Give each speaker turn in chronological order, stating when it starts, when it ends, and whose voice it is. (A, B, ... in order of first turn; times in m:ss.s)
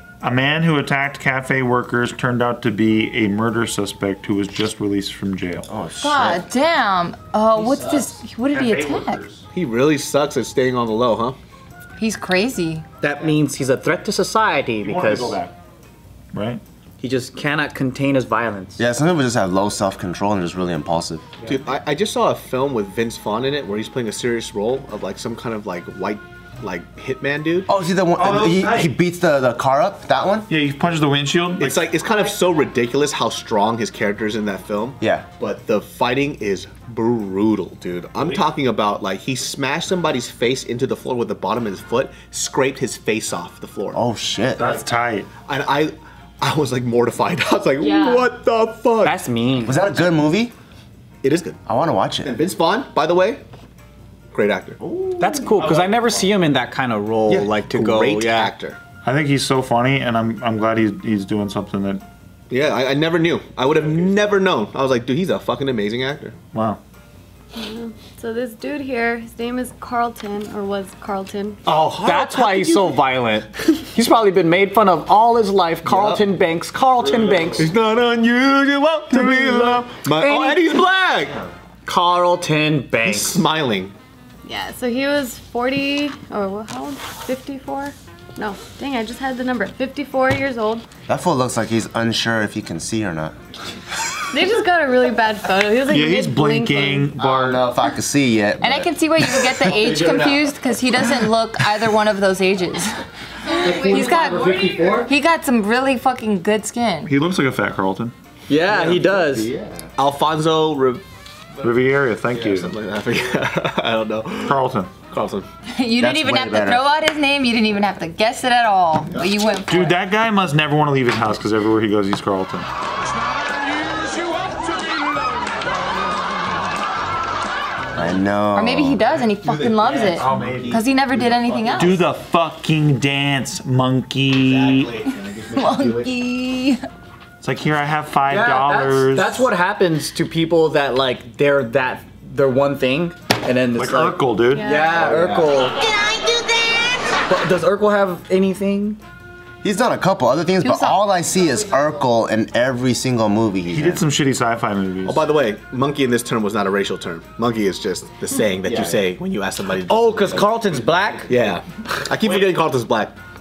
0:00.2-0:05.7 A
0:05.7-0:06.4 B
0:06.0-0:09.2 C
0:07.6-0:09.4 A
0:09.5-0:11.4 D
0:12.0-0:12.8 C
0:13.0-0:15.4 E
0:14.8-0:15.5 A
0:16.3-0:16.6 A
0:17.0-0:18.8 E
0:18.8-0:21.3 B
0:21.4-0:27.7 D
0:27.7-0:30.5 B
0:28.2-0:28.9 A
0:30.5-0:31.9 A
0:31.6-0:44.0 D
0:32.3-0:32.8 F
0:35.0-0:35.3 B
0:43.9-0:44.7 B
0:44.6-0:45.3 A
0:45.5-0:49.1 D
0:47.8-0:48.3 C
0:49.0-0:49.8 E
0:49.6-0:50.5 B
0:51.2-0:51.6 D
0:51.7-0:52.3 B
0:52.2-0:53.4 D
0:54.3-0:54.8 D
0:54.8-0:55.5 B
0:55.2-0:58.5 E
0:55.6-0:56.0 A
0:57.3-0:58.8 D
0:59.0-1:02.0 A
1:02.5-1:06.3 D
1:06.5-1:06.8 A
1:07.6-1:11.6 F
1:11.7-1:17.7 E
1:17.6-1:21.4 D
1:18.0-1:18.6 F
1:19.1-1:20.8 E
1:20.2-1:20.6 F
1:21.9-1:23.4 E
1:23.1-1:23.9 D
1:24.5-1:30.8 F
1:31.1-1:33.4 B
1:34.3-1:37.1 F
1:35.8-1:37.7 A
1:37.2-1:38.9 B
1:38.6-1:47.1 C
1:39.8-1:40.4 E
1:43.5-1:45.1 E
1:47.0-1:48.1 A
1:48.5-1:49.5 E
1:48.7-1:49.9 B
1:50.0-1:51.0 D
1:51.6-1:52.7 A
1:52.3-1:55.4 D
1:54.4-1:55.0 A
1:55.7-2:00.0 C
1:56.0-1:56.8 B
1:59.7-2:02.7 A
2:08.0-2:09.0 B
2:08.6-2:12.0 C
2:09.4-2:12.0 D
2:10.1-2:10.8 A
2:11.7-2:15.0 A
2:14.5-2:16.1 D
2:15.5-2:16.8 C
2:17.4-2:19.5 A
2:18.3-2:25.8 E
2:23.8-2:24.8 A
2:24.5-2:25.1 F
2:25.0-2:25.3 D
2:27.2-2:29.0 E
2:29.6-2:34.0 B
2:30.6-2:31.0 C
2:33.7-2:35.3 A
2:35.0-2:40.4 D
2:38.2-2:38.9 F
2:38.7-2:39.0 B
2:39.8-2:41.3 E
2:41.3-2:43.1 D